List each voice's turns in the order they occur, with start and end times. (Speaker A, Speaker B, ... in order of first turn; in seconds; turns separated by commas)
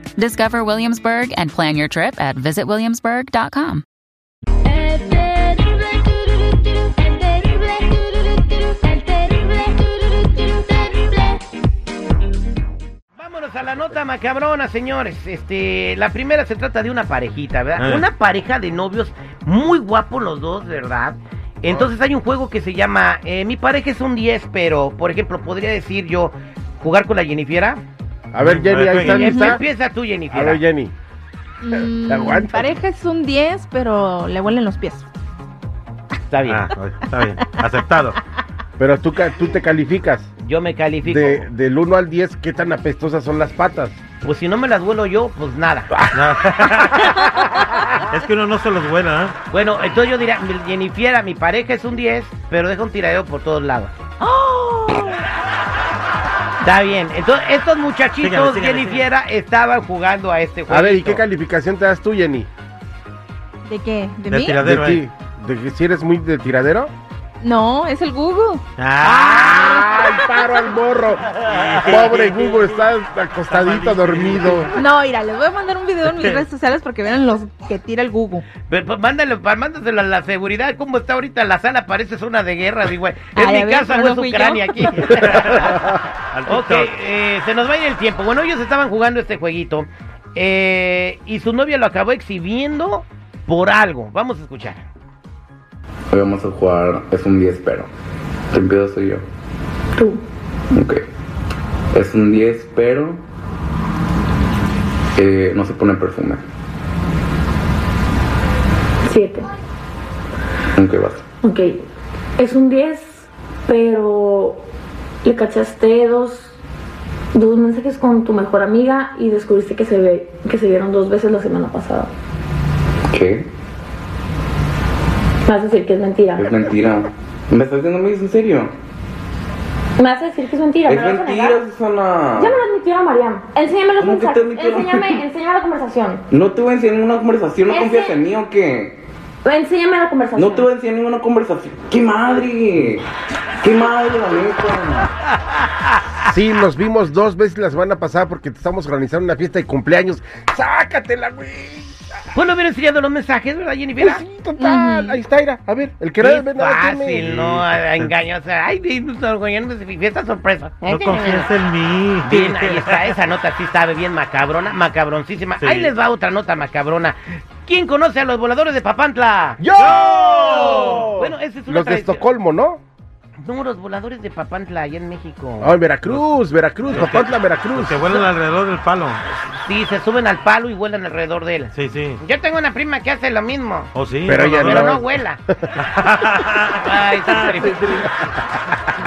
Speaker A: 0.2-3.8, Speaker B: 4.8-5.5, Speaker B: 7.0-7.3, Speaker C: 13.2-27.8, Speaker D: 17.8-18.0, Speaker E: 28.3-29.6, Speaker D: 28.4-29.3, Speaker B: 29.0-29.6, Speaker C: 29.2-30.6, Speaker E: 30.3-30.9, Speaker B: 31.6-35.1, Speaker E: 31.7-32.8, Speaker C: 36.3-36.7, Speaker D: 36.4-38.2, Speaker E: 38.8-40.3, Speaker C: 40.4-41.5, Speaker E: 41.0-44.0, Speaker C: 44.2-45.9, Speaker D: 46.1-47.4, Speaker D: 48.1-49.4, Speaker C: 49.5-53.9, Speaker B: 54.2-55.1, Speaker C: 56.6-61.2, Speaker D: 58.2-59.0, Speaker E: 60.7-62.5, Speaker B: 63.6-64.6, Speaker D: 64.3-65.0, Speaker E: 64.6-66.9, Speaker B: 67.4-68.6, Speaker D: 68.8-69.5, Speaker C: 69.0-70.2, Speaker E: 69.4-74.7, Speaker D: 71.4-72.8, Speaker D: 73.5-74.7, Speaker B: 74.8-78.5, Speaker D: 76.1-76.4, Speaker C: 78.6-85.9, Speaker B: 83.3-85.1, Speaker D: 85.1-87.0, Speaker C: 86.5-94.9, Speaker F: 96.1-97.9, Speaker F: 98.5-99.2, Speaker F: 100.7-101.0, Speaker F: 101.9-103.2, Speaker F: 105.2-106.4, Speaker G: 109.0-109.5, Speaker F: 110.8-111.2, Speaker G: 111.4-111.8, Speaker G: 112.4-114.6, Speaker G: 115.2-116.5, Speaker G: 117.3-122.1, Speaker F: 123.1-123.5, Speaker G: 125.5-126.7, Speaker F: 126.4-128.7, Speaker G: 130.0-131.6, Speaker F: 130.9-132.6, Speaker G: 132.3-136.2, Speaker F: 134.0-135.2, Speaker F: 136.3-139.0, Speaker G: 137.7-138.2, Speaker G: 139.4-140.7, Speaker F: 140.4-143.0, Speaker F: 143.6-145.1, Speaker E: 146.3-152.1, Speaker C: 152.3-154.2, Speaker E: 154.0-157.4, Speaker B: 154.6-155.2, Speaker C: 156.2-161.1, Speaker D: 157.3-158.1, Speaker D: 160.8-163.2, Speaker C: 162.2-169.6, Speaker D: 165.6-165.9, Speaker E: 169.6-172.8, Speaker D: 169.8-171.1, Speaker C: 170.5-172.2, Speaker C: 173.4-175.8, Speaker E: 175.6-178.0, Speaker D: 176.9-179.2, Speaker C: 176.9-177.3, Speaker C: 179.3-185.4, Speaker D: 181.7-182.2, Speaker D: 183.9-185.0, Speaker E: 184.2-185.1, Speaker D: 185.8-188.0, Speaker C: 186.8-188.0